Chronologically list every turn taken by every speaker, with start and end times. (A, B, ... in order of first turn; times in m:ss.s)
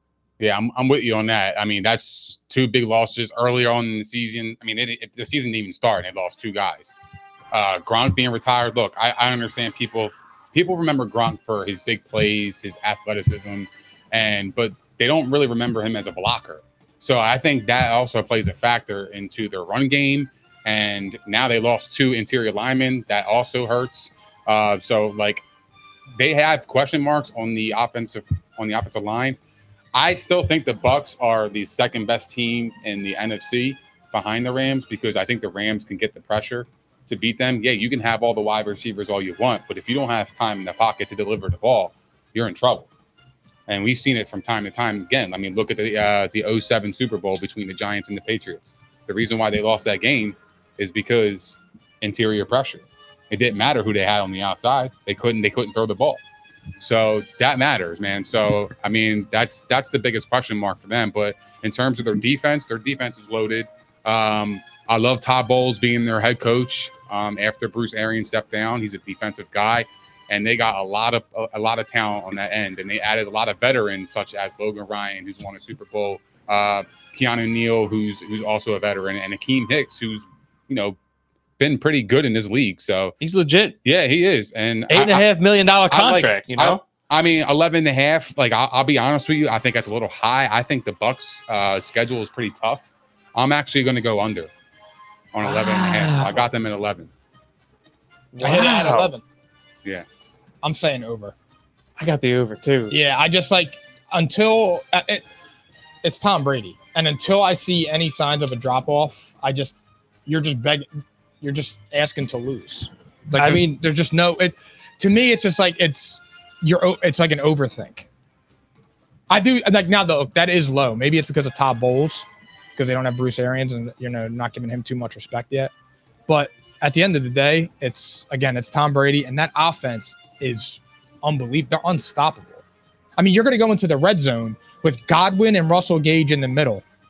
0:00.4-0:06.9 A
0:07.5-0:25.4 A
0:26.2-0:29.4 A
0:29.9-0:42.9 A
0:43.7-0:56.2 A
0:56.8-1:21.0 A
1:21.6-1:23.2 A
1:23.2-1:23.8 B
1:23.8-1:25.3 A
1:24.9-1:26.8 B
1:25.9-1:34.5 A
1:35.3-1:37.1 A
1:35.4-1:36.4 B
1:38.4-1:39.1 B
1:38.4-1:39.2 C
1:40.6-1:41.4 C
1:42.0-1:43.0 B
1:42.9-1:45.2 C
1:46.0-1:50.9 C
1:51.4-1:58.1 C
1:53.4-1:53.8 B
1:59.3-2:05.7 C
2:06.3-2:12.6 C
2:13.2-2:16.8 C